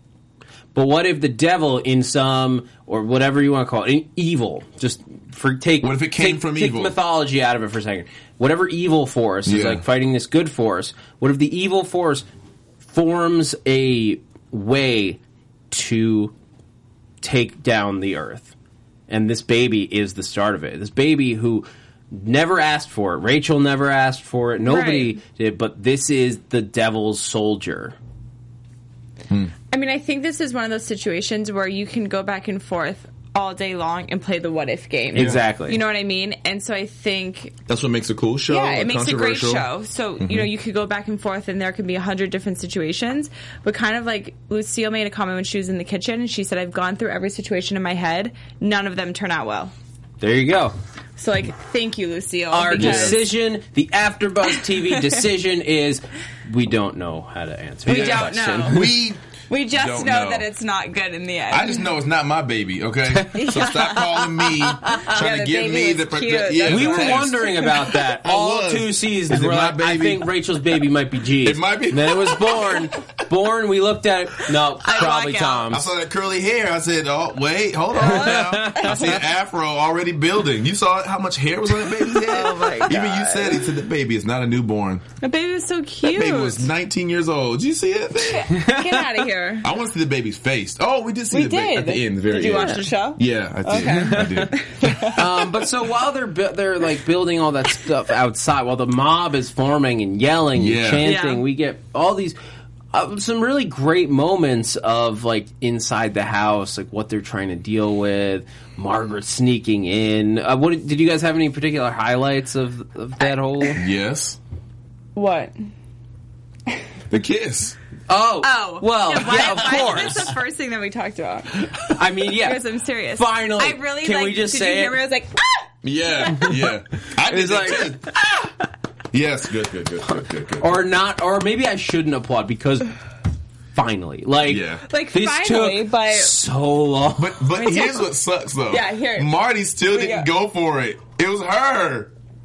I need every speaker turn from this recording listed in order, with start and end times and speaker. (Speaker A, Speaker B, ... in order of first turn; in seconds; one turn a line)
Speaker A: 0.7-12.3
Speaker B: 5.8-6.9
Speaker B: 9.4-9.8
Speaker A: 12.8-15.2
Speaker A: 15.7-16.3
Speaker A: 17.2-18.5
Speaker A: 19.1-27.9
Speaker C: 24.6-25.2
Speaker C: 29.7-37.5
Speaker A: 35.1-35.8
Speaker B: 35.1-35.4
Speaker B: 37.7-39.6
Speaker C: 38.5-49.7
Speaker B: 40.2-40.5
Speaker A: 50.2-50.7
Speaker C: 51.2-53.2
Speaker A: 52.5-58.9
Speaker B: 52.8-53.2
Speaker C: 57.9-58.9
Speaker B: 57.9-59.2
Speaker C: 59.5-61.9
Speaker B: 59.7-60.4
Speaker B: 61.5-70.2
Speaker C: 63.3-67.6
Speaker A: 66.6-75.8
Speaker B: 71.4-72.8
Speaker C: 74.8-75.8
Speaker B: 75.7-85.0
Speaker C: 78.0-79.2
Speaker A: 78.0-79.2
Speaker C: 82.0-83.8
Speaker C: 85.2-86.7
Speaker B: 86.0-88.6
Speaker C: 88.2-89.7
Speaker A: 88.5-89.1
Speaker B: 89.6-95.2
Speaker C: 91.3-95.2
Speaker A: 93.7-94.5
Speaker A: 95.1-102.4
Speaker B: 100.5-101.1
Speaker C: 101.0-101.4
Speaker A: 102.9-113.8
Speaker B: 113.7-114.4
Speaker C: 115.1-115.6
Speaker B: 117.1-117.8
Speaker A: 118.1-120.3
Speaker C: 118.4-126.7
Speaker A: 121.9-125.0
Speaker B: 125.8-128.1
Speaker A: 127.0-128.0
Speaker B: 129.1-130.8
Speaker A: 130.1-132.9
Speaker A: 133.7-137.8
Speaker B: 134.4-134.8
Speaker C: 134.9-136.3
Speaker B: 137.2-142.1
Speaker C: 138.7-140.3